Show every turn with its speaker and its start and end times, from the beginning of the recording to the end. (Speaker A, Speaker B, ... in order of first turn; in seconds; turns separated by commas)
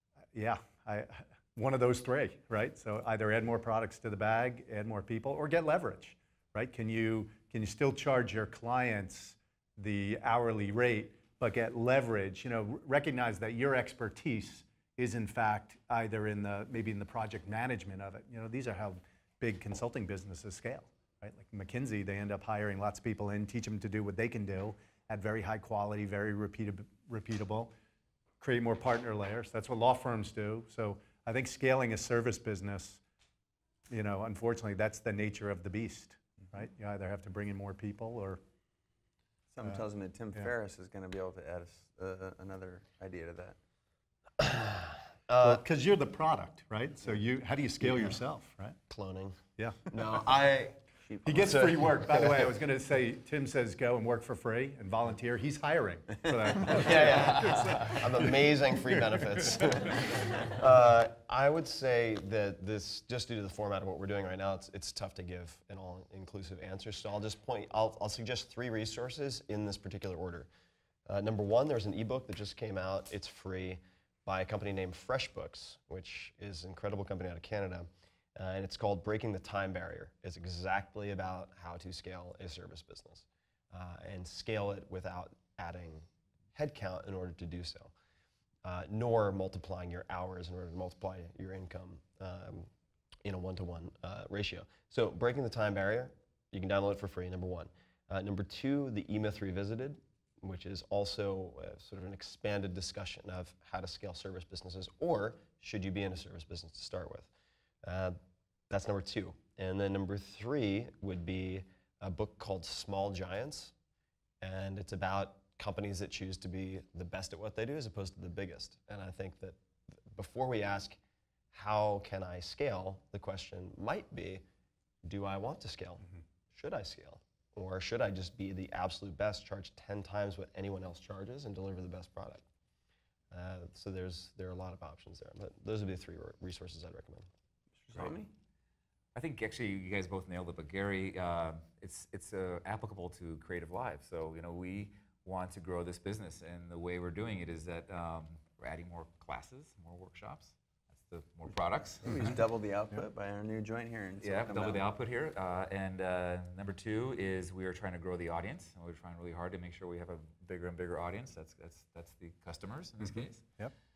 Speaker A: 0.3-27.7, Speaker A: 28.4-33.0, Speaker A: 33.9-38.4, Speaker B: 39.5-43.6, Speaker C: 44.4-45.6, Speaker A: 45.4-48.8, Speaker C: 48.9-52.5, Speaker A: 49.6-49.9, Speaker A: 51.2-59.9, Speaker C: 56.7-70.5, Speaker C: 71.1-87.9, Speaker C: 88.7-92.7, Speaker C: 93.2-107.3, Speaker C: 107.8-108.2, Speaker C: 108.7-113.7, Speaker C: 114.4-121.0, Speaker C: 121.5-124.5, Speaker C: 125.0-132.4, Speaker C: 133.3-137.3, Speaker B: 137.8-138.3, Speaker D: 139.2-152.2, Speaker B: 152.1-154.9, Speaker D: 154.2-163.4, Speaker A: 163.0-163.7